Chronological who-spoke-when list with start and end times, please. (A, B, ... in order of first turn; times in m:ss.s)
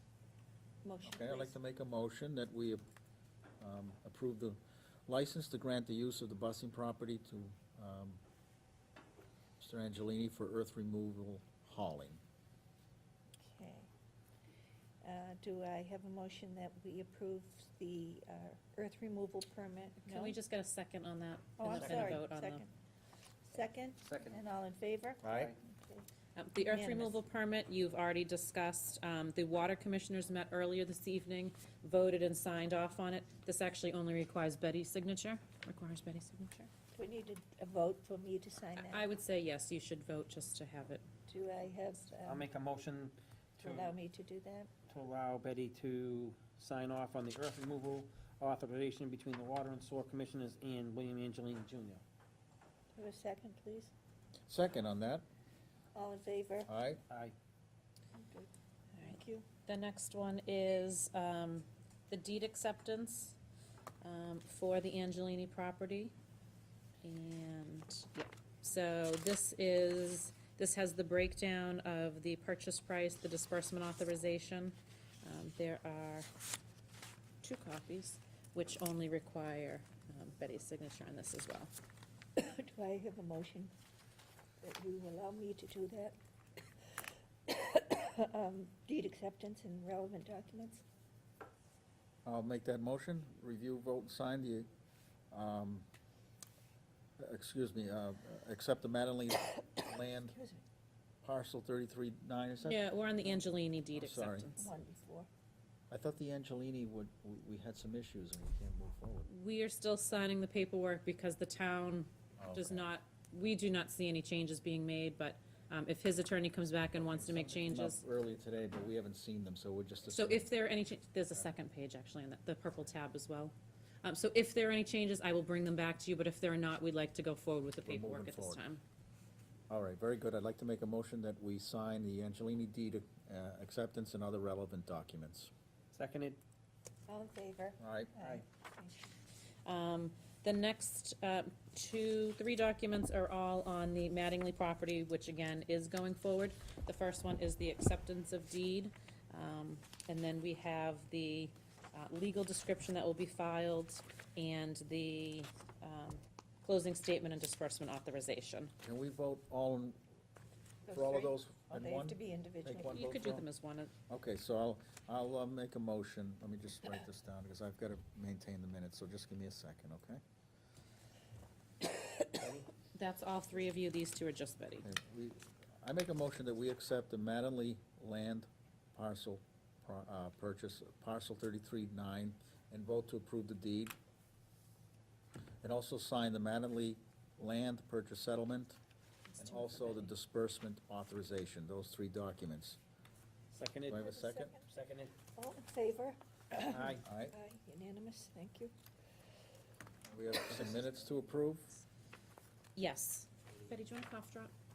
0:00.8-0:01.5 A
0:01.0-0:02.8 B
0:03.6-0:08.2 B
0:09.6-0:12.2 B
0:13.4-0:13.9 A
0:15.0-0:20.4 A
0:20.0-0:22.6 C
0:21.6-0:22.7 A
0:23.4-0:27.2 A
0:24.0-0:24.4 D
0:25.2-0:25.5 B
0:26.4-0:36.7 C
0:36.9-0:39.1 A
0:38.8-0:41.0 C
0:41.3-0:42.5 A
0:42.1-0:43.9 D
0:43.6-0:44.7 A
0:44.9-0:52.0 D
0:52.9-0:53.9 A
0:54.5-0:55.2 B
0:55.9-0:56.7 A
0:56.7-0:57.0 B
0:58.1-0:59.4 A
0:59.0-1:03.4 C
1:04.0-1:06.1 C
1:07.0-1:16.3 C
1:17.4-1:21.7 C
1:22.4-1:23.7 A
1:24.6-1:26.2 A
1:27.5-1:30.8 A
1:32.2-1:34.7 B
1:35.3-1:35.9 B
1:37.2-1:40.3 B
1:40.3-1:40.6 A
1:41.2-1:44.5 B
1:42.6-1:44.6 C
1:44.6-1:45.3 A
1:45.9-1:49.3 B
1:49.3-1:58.0 C
1:52.4-1:52.9 B
1:57.1-2:00.5 B
2:00.1-2:08.8 C
2:07.8-2:08.6 B
2:09.7-2:15.5 B
2:15.9-2:16.4 D
2:17.1-2:19.1 A
2:17.8-2:18.1 B
2:19.6-2:38.7 C
2:38.8-2:40.0 B
2:40.9-2:43.1 A
2:40.9-2:43.4 B
2:42.9-2:43.9 C
2:44.1-2:50.2 B
2:52.3-2:52.7 D
2:52.9-2:54.9 C
2:54.8-3:04.0 B
3:05.6-3:08.8 B
3:09.3-3:10.1 C
3:09.4-3:12.8 B
3:13.5-3:14.1 D
3:13.9-3:14.5 B
3:14.0-3:14.7 A
3:14.7-3:15.2 D
3:15.3-3:18.7 A
3:16.7-3:17.0 D
3:16.9-3:17.3 B
3:20.1-3:21.7 B
3:22.8-3:24.5 C